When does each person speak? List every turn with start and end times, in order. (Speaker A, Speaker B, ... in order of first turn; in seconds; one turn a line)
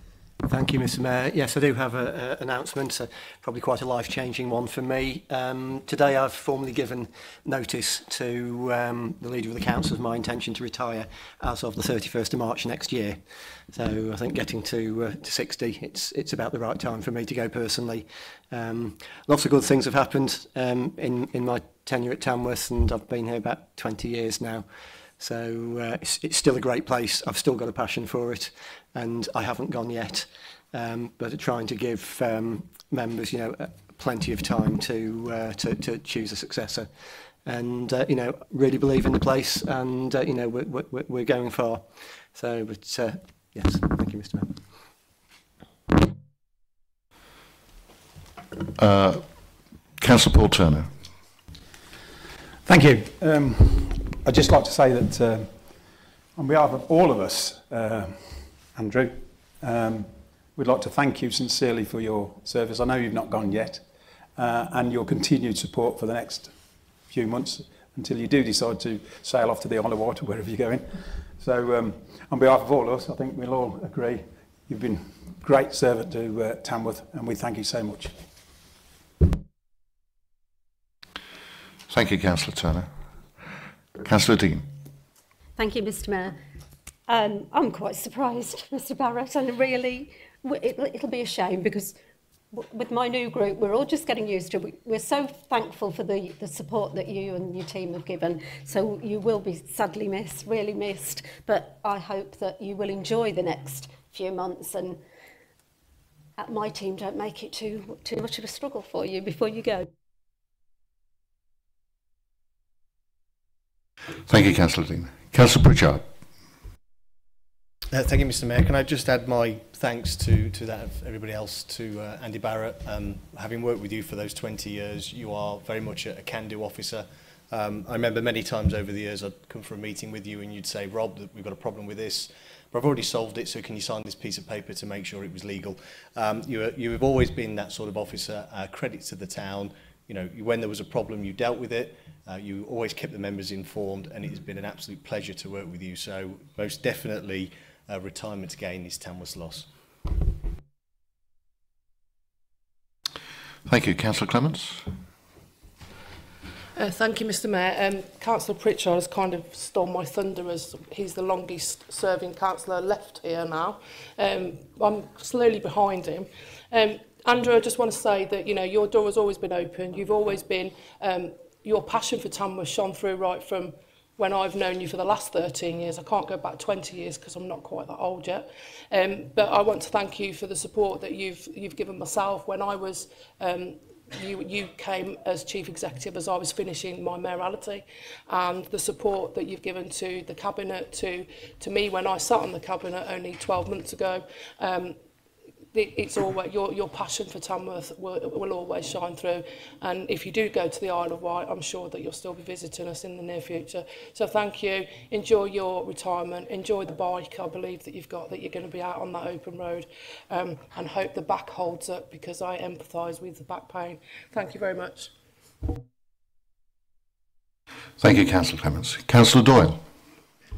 Speaker A: 0.4-44.8
Speaker B: 48.8-49.3
Speaker B: 50.0-50.9
Speaker C: 52.6-63.8
Speaker C: 64.4-78.2
Speaker B: 81.9-82.9
Speaker B: 84.0-84.7
Speaker D: 85.6-86.4
Speaker D: 87.1-92.0
Speaker D: 92.5-105.0
Speaker D: 106.4-109.9
Speaker B: 114.3-116.1
Speaker E: 117.9-149.7
Speaker B: 153.7-154.9
Speaker F: 156.8-195.0
Speaker F: 195.7-215.1
Speaker B: 218.0-219.8